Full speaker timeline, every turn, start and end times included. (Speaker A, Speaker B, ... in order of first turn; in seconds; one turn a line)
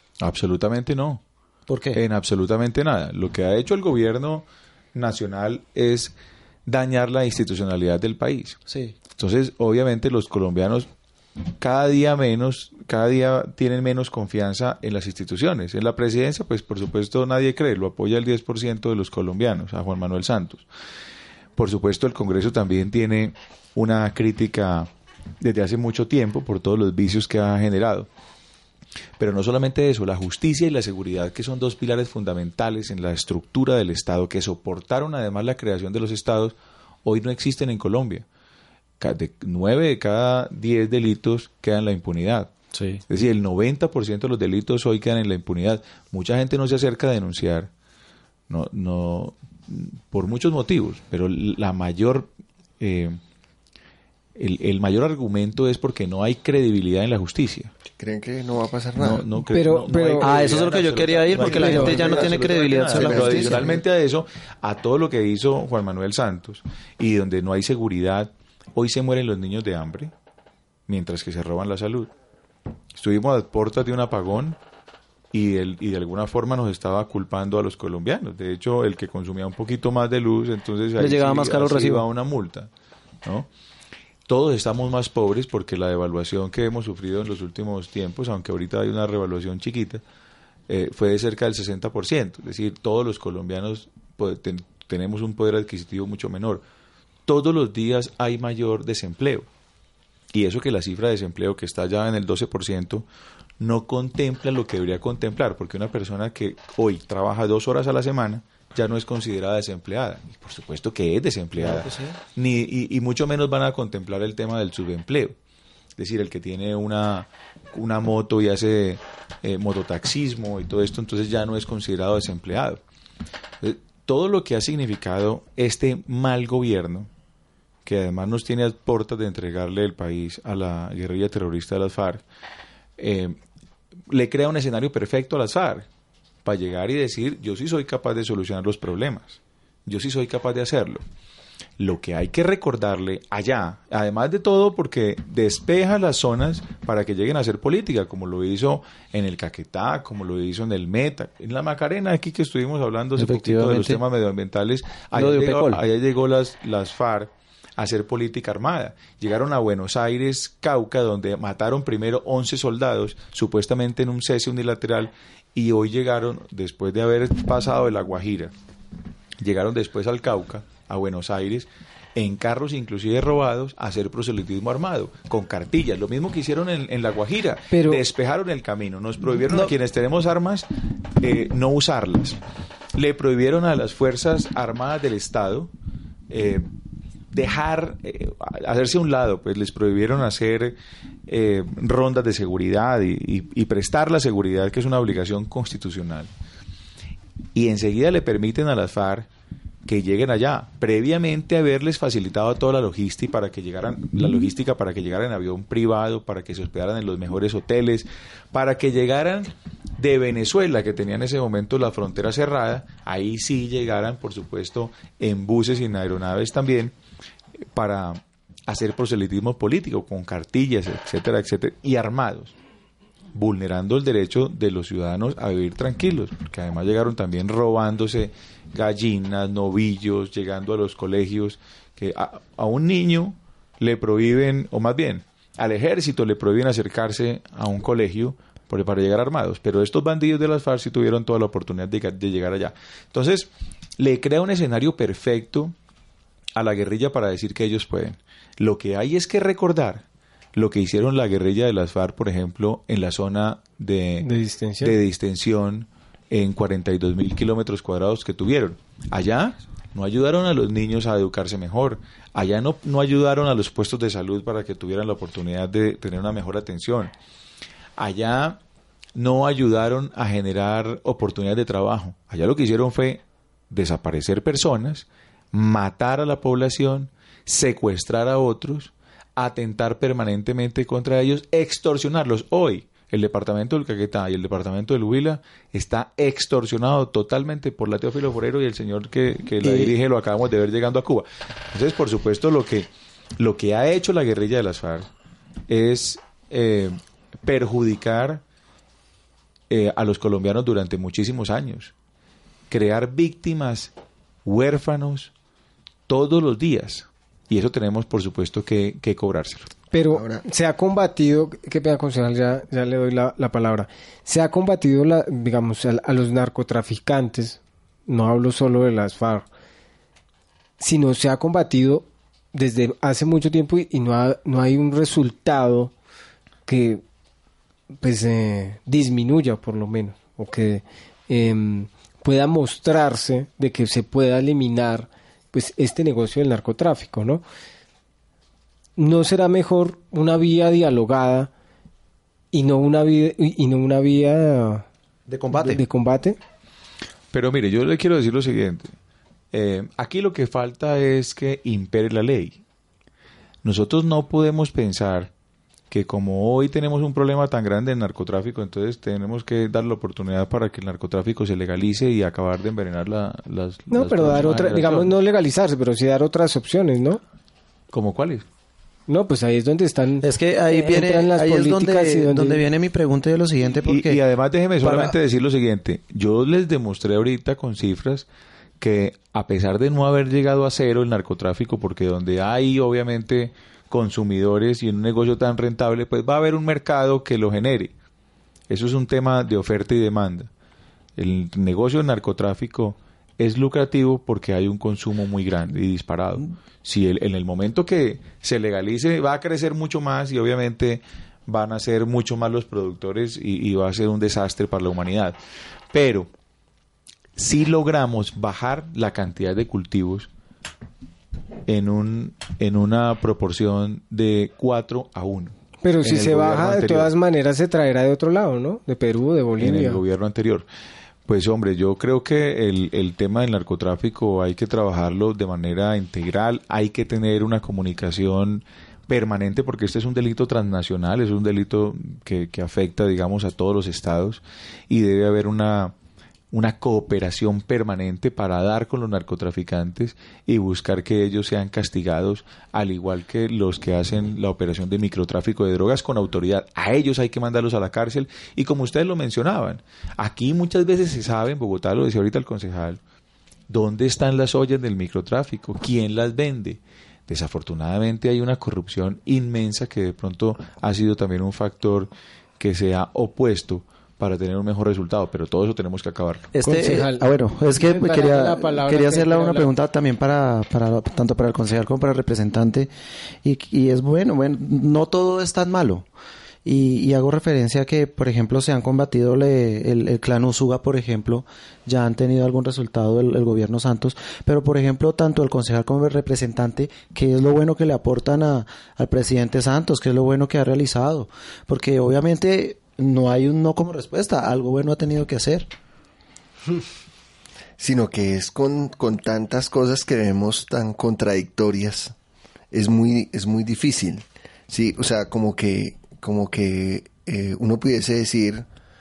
Speaker A: 0.2-1.2
Speaker B: 1.7-2.0
Speaker A: 1.9-6.2
Speaker A: 6.7-8.6
Speaker B: 8.7-9.0
Speaker A: 9.1-10.9
Speaker A: 11.6-20.7
Speaker A: 21.6-24.9
Speaker A: 25.4-28.1
Speaker A: 29.2-38.3
Speaker A: 39.0-42.5
Speaker B: 42.7-43.0
Speaker A: 43.1-47.7
Speaker A: 48.5-53.2
Speaker A: 54.4-57.7
Speaker C: 57.9-59.3
Speaker A: 59.0-70.1
Speaker D: 59.5-60.3
Speaker B: 60.2-63.8
Speaker D: 61.4-62.1
Speaker C: 62.0-63.8
Speaker A: 70.9-72.1
Speaker A: 73.0-74.6
Speaker A: 75.3-82.7
Speaker B: 81.0-82.0
Speaker A: 84.3-90.0
Speaker A: 90.7-96.6
Speaker A: 97.3-99.5
Speaker A: 100.3-103.1
Speaker A: 103.6-115.3
Speaker B: 111.6-112.2
Speaker A: 116.0-122.8
Speaker A: 123.6-127.1
Speaker A: 127.9-132.2
Speaker A: 133.0-133.4
Speaker A: 134.1-135.9
Speaker A: 136.4-141.0
Speaker A: 141.8-168.5
Speaker B: 153.2-154.0
Speaker B: 155.1-155.8
Speaker A: 169.4-180.7
Speaker D: 177.7-178.0
Speaker A: 181.2-182.4
Speaker A: 182.9-185.7
Speaker A: 186.3-186.7
Speaker A: 187.3-196.3
Speaker A: 197.6-199.3
Speaker A: 199.9-216.9
Speaker A: 217.7-222.5
Speaker A: 223.3-245.7
Speaker A: 246.6-250.0
Speaker A: 250.6-254.3
Speaker D: 254.2-254.9
Speaker A: 254.8-267.1
Speaker A: 268.0-268.6
Speaker A: 269.2-295.1
Speaker B: 289.6-289.9
Speaker A: 295.7-298.4
Speaker A: 299.7-301.9
Speaker A: 302.7-303.9
Speaker A: 304.4-305.3
Speaker A: 306.1-309.7
Speaker D: 309.9-319.5
Speaker C: 310.1-310.4
Speaker D: 320.8-325.9
Speaker D: 326.7-327.0
Speaker D: 328.0-337.4
Speaker D: 339.0-341.5
Speaker D: 342.5-344.9
Speaker B: 345.3-345.8
Speaker D: 345.6-346.4
Speaker A: 347.3-348.9
Speaker A: 349.5-352.6
Speaker A: 353.6-355.3
Speaker A: 355.9-365.1
Speaker D: 363.9-367.2
Speaker A: 367.9-368.4
Speaker D: 369.1-372.6
Speaker B: 370.2-374.2
Speaker A: 373.9-378.3
Speaker B: 374.8-375.1
Speaker A: 378.8-387.9
Speaker A: 388.7-390.5
Speaker A: 391.2-405.4
Speaker A: 405.9-406.3
Speaker A: 407.4-410.3
Speaker A: 411.7-417.1
Speaker D: 415.8-420.0
Speaker A: 419.6-420.7
Speaker A: 421.3-435.9
Speaker A: 436.5-453.0
Speaker A: 453.7-466.5
Speaker B: 466.5-472.9
Speaker D: 466.6-469.7
Speaker B: 473.4-476.1
Speaker B: 476.6-495.7
Speaker C: 497.8-502.1
Speaker C: 502.7-508.7